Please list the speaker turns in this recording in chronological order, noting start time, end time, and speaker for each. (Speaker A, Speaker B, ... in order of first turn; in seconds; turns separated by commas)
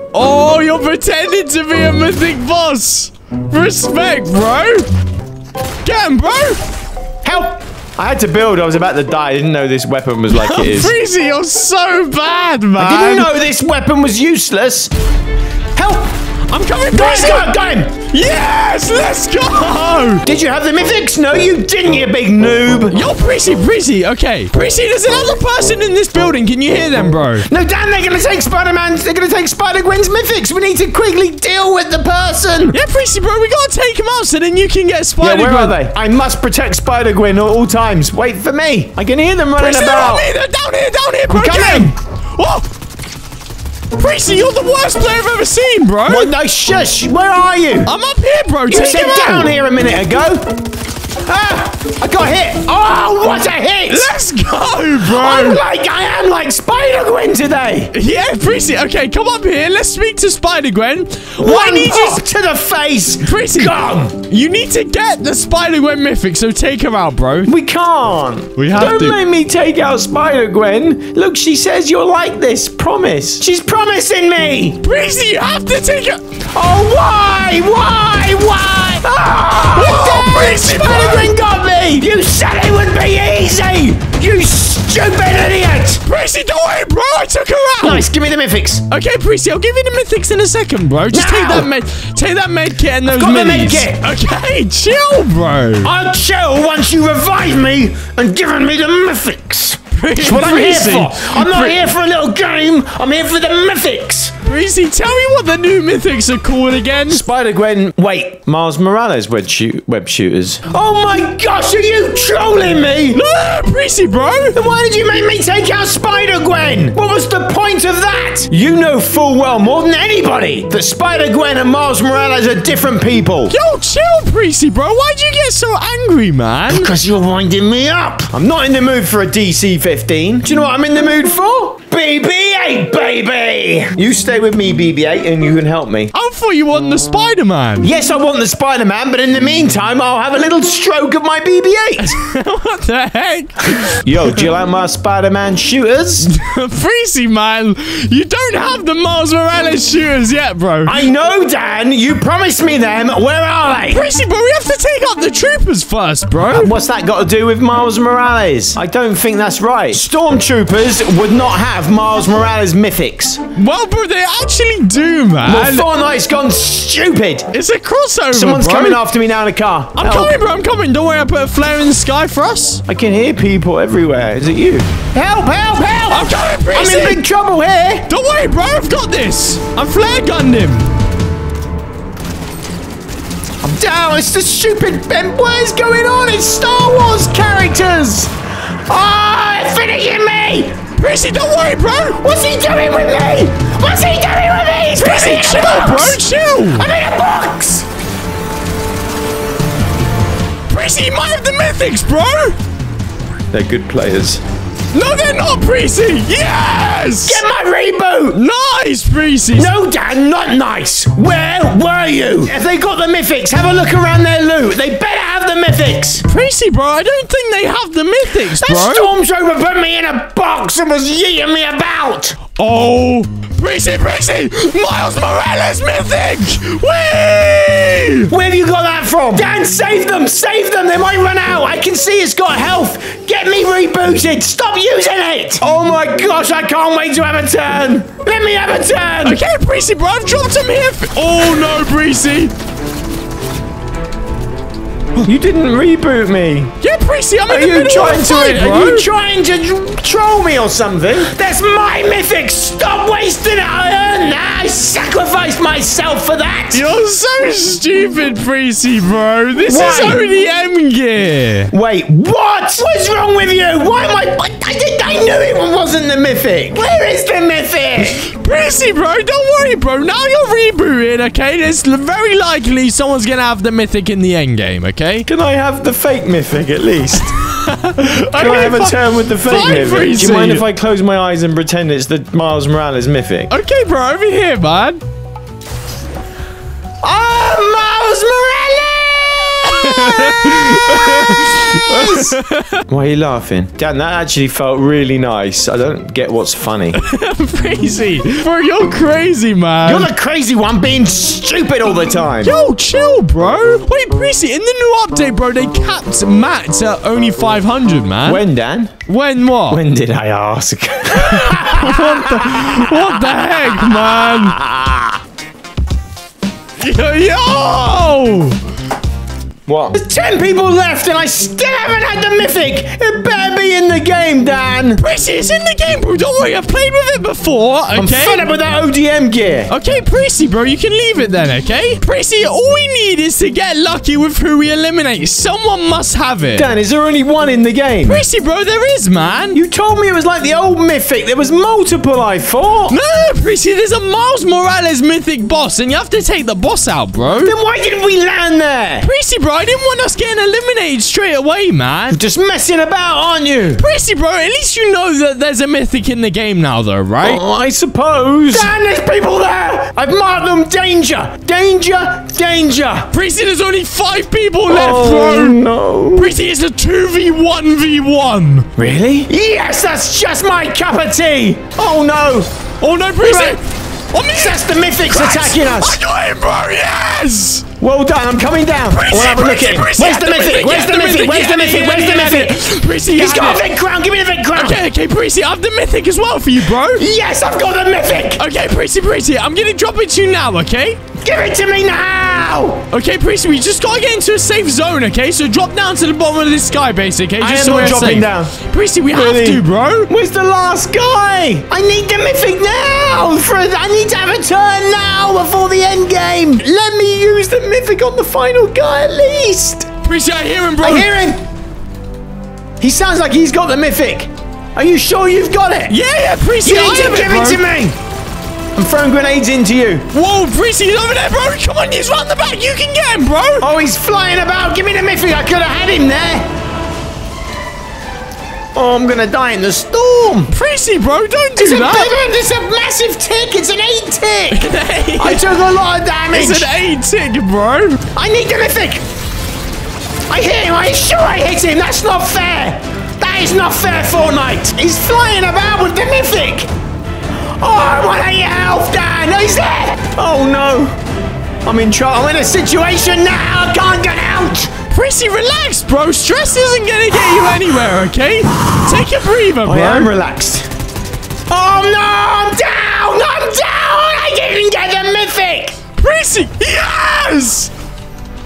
Speaker A: 0.1-4.9, Speaker A: 5.8-6.7, Speaker B: 7.2-10.9, Speaker A: 10.3-13.3, Speaker B: 12.8-14.9, Speaker B: 15.8-16.1, Speaker A: 16.5-17.5, Speaker B: 16.9-17.9, Speaker A: 18.1-20.2, Speaker B: 20.3-23.0, Speaker A: 22.9-27.5, Speaker B: 27.5-32.8, Speaker A: 32.7-35.8, Speaker B: 35.2-40.3, Speaker A: 39.6-42.7, Speaker B: 41.3-42.0, Speaker A: 44.0-46.3, Speaker B: 46.1-47.9, Speaker A: 47.9-49.5, Speaker B: 48.7-50.5, Speaker B: 51.2-54.1, Speaker A: 53.9-55.6, Speaker B: 55.0-57.9, Speaker A: 57.9-62.2, Speaker B: 61.4-64.1, Speaker A: 63.2-67.5, Speaker B: 67.5-74.8, Speaker A: 68.6-69.2, Speaker A: 74.8-76.2, Speaker B: 76.5-86.0, Speaker A: 79.7-81.3, Speaker A: 86.0-88.1, Speaker B: 87.8-88.8, Speaker A: 88.9-95.9, Speaker B: 91.1-91.7, Speaker B: 93.1-94.0, Speaker B: 95.8-104.3, Speaker A: 99.9-101.8, Speaker A: 104.4-107.2, Speaker B: 107.1-113.2, Speaker A: 113.1-114.6, Speaker B: 114.5-123.5, Speaker A: 123.5-127.0, Speaker B: 126.7-136.1, Speaker A: 136.1-137.9, Speaker B: 137.8-142.2, Speaker A: 142.0-144.4, Speaker B: 144.0-146.3, Speaker A: 146.2-151.0, Speaker B: 150.9-154.1, Speaker A: 153.9-156.7, Speaker B: 156.4-163.4, Speaker A: 163.6-165.9, Speaker B: 165.4-167.5, Speaker A: 167.5-169.0, Speaker B: 168.3-170.4, Speaker A: 169.9-172.8, Speaker B: 172.9-178.1, Speaker A: 176.1-177.2, Speaker A: 178.1-180.9, Speaker B: 183.6-188.3, Speaker B: 188.9-190.8, Speaker A: 191.0-192.2, Speaker B: 192.2-197.9, Speaker A: 194.9-196.9, Speaker A: 200.7-202.6, Speaker B: 203.5-204.4, Speaker A: 204.9-207.4, Speaker B: 207.2-208.4, Speaker A: 208.3-209.7, Speaker B: 209.5-216.3, Speaker A: 216.2-219.1, Speaker B: 218.4-222.4, Speaker A: 222.6-228.3, Speaker B: 228.3-239.4, Speaker A: 239.2-242.5, Speaker B: 245.2-246.7, Speaker A: 246.8-249.1, Speaker B: 247.5-256.9, Speaker A: 256.7-261.7, Speaker B: 259.6-260.2, Speaker B: 261.7-268.3, Speaker A: 268.0-275.3, Speaker B: 275.3-277.3, Speaker A: 277.3-280.6, Speaker B: 278.3-283.5, Speaker A: 283.5-285.0, Speaker B: 287.0-292.4, Speaker A: 289.7-292.8, Speaker B: 292.9-297.0, Speaker A: 296.9-300.1, Speaker B: 299.8-302.6, Speaker A: 302.4-308.4, Speaker B: 308.2-308.9, Speaker A: 309.1-309.8, Speaker B: 309.7-315.2, Speaker A: 311.1-314.6, Speaker A: 316.8-318.6, Speaker B: 319.7-325.0, Speaker A: 325.0-328.4, Speaker B: 327.9-329.7, Speaker A: 329.7-336.7, Speaker B: 336.6-338.2, Speaker A: 338.0-339.6, Speaker B: 339.5-343.0, Speaker A: 342.9-347.6, Speaker B: 347.3-349.1, Speaker A: 349.0-352.2, Speaker B: 352.1-353.8, Speaker A: 353.8-357.4, Speaker B: 357.2-363.1, Speaker A: 363.1-365.6, Speaker B: 364.7-366.4, Speaker A: 366.1-368.7, Speaker B: 368.8-372.5, Speaker A: 372.8-373.6, Speaker B: 373.2-373.6, Speaker A: 374.1-377.7, Speaker B: 374.3-376.0, Speaker B: 377.8-384.8, Speaker A: 378.9-383.6, Speaker A: 384.6-387.1, Speaker B: 386.8-388.4, Speaker A: 388.4-391.0, Speaker B: 391.2-392.9, Speaker A: 392.9-400.1, Speaker B: 397.4-398.5, Speaker B: 399.1-409.9, Speaker A: 410.0-411.1, Speaker B: 410.8-411.4, Speaker B: 412.8-416.0, Speaker A: 415.9-417.6, Speaker B: 416.6-418.0, Speaker B: 418.8-420.1, Speaker A: 420.1-423.7, Speaker B: 423.6-426.5, Speaker B: 428.8-430.5, Speaker A: 430.5-432.2, Speaker B: 431.6-434.6, Speaker A: 434.5-435.4, Speaker B: 435.2-436.7, Speaker A: 436.3-438.0, Speaker B: 438.1-439.0, Speaker B: 440.3-446.7, Speaker B: 447.6-450.9, Speaker B: 451.6-454.7, Speaker A: 454.9-460.1, Speaker B: 459.6-460.7, Speaker B: 461.5-465.8, Speaker A: 466.0-467.7